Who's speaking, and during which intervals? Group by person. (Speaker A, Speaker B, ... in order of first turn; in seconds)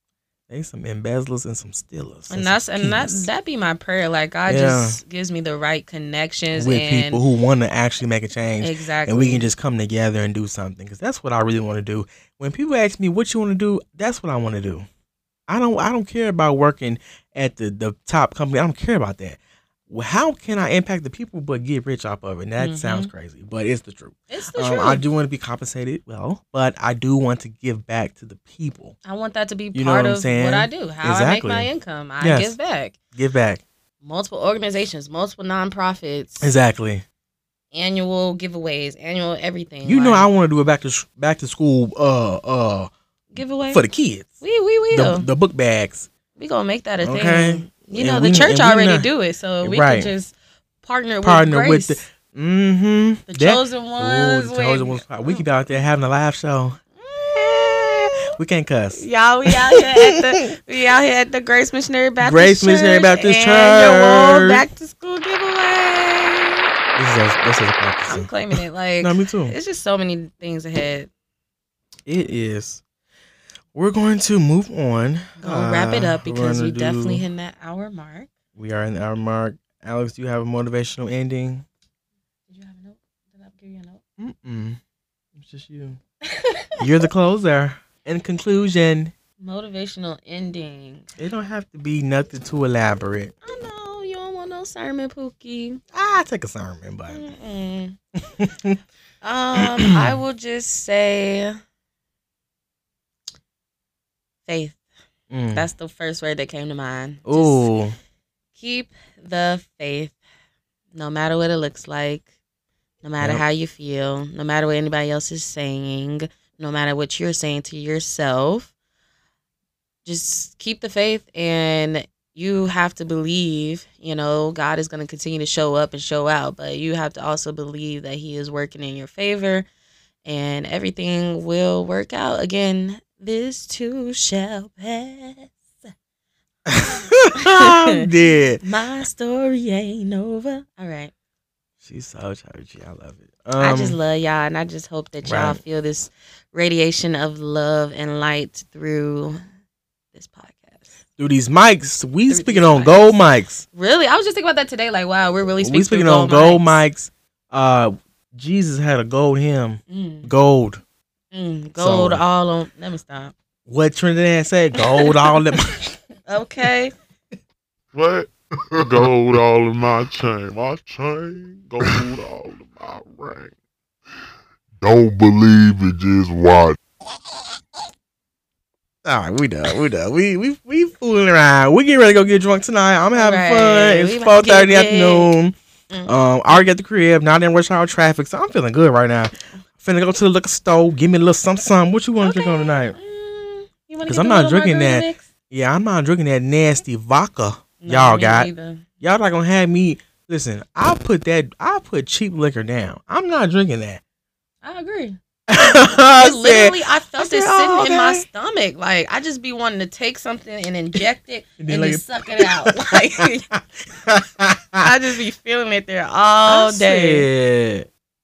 Speaker A: 0.5-3.3, 4.5-5.0, 6.5-14.8, 15.5-28.9, 29.7-31.7, 32.2-32.6, 33.1-33.6, 36.4-37.0, 39.8-42.9, 43.7-44.3, 44.9-46.1, 47.0-49.1, 49.6-50.1, 51.2-60.1, 62.2-64.6, 67.0-68.4, 69.0-69.5, 72.0-72.8, 73.7-77.2, 78.5-81.6, 84.2-84.8, 85.3-86.0, 86.8-89.1, 91.2-93.3, 95.9-97.2, 98.2-98.8, 99.6-100.1, 105.3-105.7, 107.2-108.0, 136.7-138.6, 141.8-144.0, 145.2-145.6, 151.2-153.6, 155.6-160.8, 161.8-162.2, 163.7-166.0, 179.0-192.9, 194.0-204.0, 205.5-208.2, 211.6-214.9, 216.5-217.9
Speaker B: 2.3-7.2, 8.6-9.5, 22.6-23.1, 24.3-25.0, 29.1-33.0, 34.0-36.5, 37.7-40.3, 43.3-43.8, 44.4-45.3, 46.4-52.0, 53.3-55.4, 57.0-58.2, 58.9-66.7, 68.1-71.1, 75.4-78.3, 82.5-84.0, 86.2-86.8, 89.4-91.1, 93.4-95.8, 97.1-98.0, 99.2-101.6, 104.4-104.8, 105.5-107.7, 108.5-110.2, 110.9-112.2, 113.0-118.7, 120.0-129.7, 130.2-135.9, 137.3-137.9, 138.6-141.1, 143.6-149.4, 150.1-150.9, 152.3-153.2, 153.7-156.8, 159.9-160.3, 161.3-163.3, 164.8-165.3, 166.3-166.9, 183.1-185.3, 192.2-195.2, 197.8-198.8, 204.6-205.2, 206.1-213.4, 214.8-217.3
Speaker C: 167.9-173.5
Speaker D: 174.8-176.8